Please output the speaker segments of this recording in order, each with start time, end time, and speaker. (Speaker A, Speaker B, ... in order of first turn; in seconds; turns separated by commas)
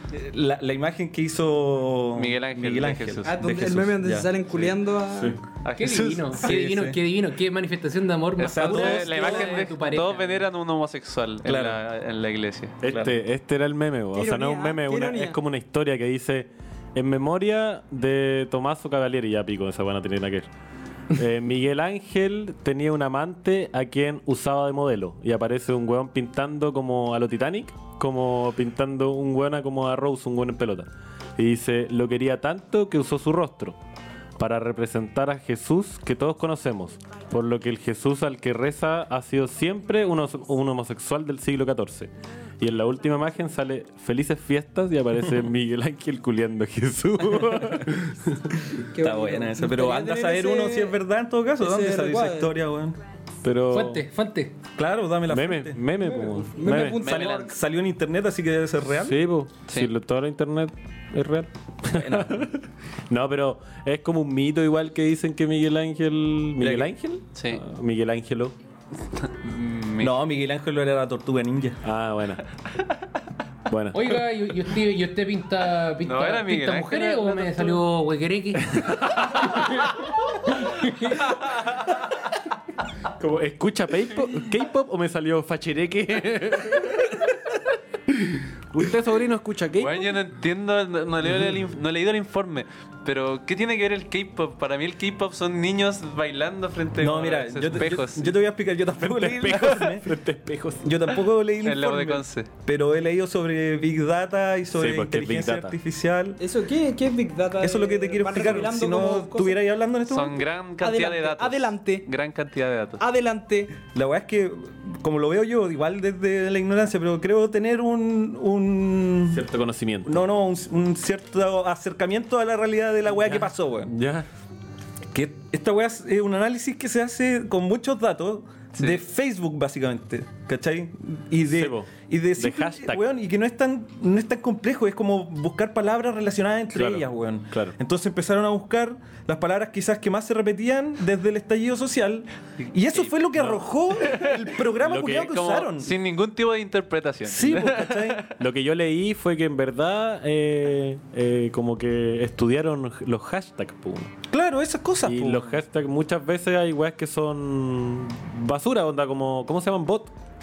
Speaker A: 0.1-4.8, Speaker B: 2.1-3.4, Speaker C: 3.2-5.4, Speaker D: 5.1-5.4, Speaker B: 5.6-6.5, Speaker E: 5.8-10.4, Speaker A: 6.2-7.0, Speaker B: 8.4-13.1, Speaker A: 8.4-9.6, Speaker A: 11.4-11.8, Speaker D: 12.8-20.5, Speaker C: 14.1-15.4, Speaker D: 21.1-33.8, Speaker D: 34.4-48.7, Speaker C: 48.9-51.0, Speaker A: 49.0-53.0, Speaker C: 51.6-52.5, Speaker D: 53.4-54.0, Speaker E: 53.7-54.5, Speaker A: 54.8-55.9, Speaker D: 55.3-57.0, Speaker C: 56.0-57.5, Speaker B: 56.8-57.5, Speaker A: 56.9-59.2, Speaker D: 59.0-68.5, Speaker A: 61.9-62.5, Speaker A: 66.6-66.9, Speaker B: 67.3-67.6, Speaker B: 69.2-70.1, Speaker A: 70.0-71.8, Speaker D: 71.8-72.4, Speaker D: 73.7-74.2, Speaker E: 73.9-79.9, Speaker B: 76.0-77.8, Speaker D: 78.7-79.8, Speaker E: 80.5-81.3, Speaker D: 83.2-87.4, Speaker D: 88.1-90.1, Speaker B: 89.8-98.3, Speaker A: 97.0-100.1, Speaker D: 99.0-101.0, Speaker A: 100.8-106.4, Speaker B: 101.6-102.5, Speaker D: 104.7-105.8, Speaker C: 106.4-109.6, Speaker A: 107.6-110.4, Speaker B: 110.1-113.0, Speaker C: 110.8-112.0, Speaker C: 113.0-113.8, Speaker A: 113.9-119.4, Speaker D: 119.3-120.2, Speaker A: 120.1-123.9, Speaker D: 123.2-124.3, Speaker A: 125.1-145.9, Speaker D: 131.5-133.0, Speaker D: 136.7-137.7, Speaker D: 143.3-143.6, Speaker B: 144.1-144.5, Speaker D: 144.8-145.3, Speaker B: 145.0-148.3, Speaker A: 147.2-148.3, Speaker D: 148.4-154.1, Speaker A: 154.3-155.5, Speaker D: 155.0-160.1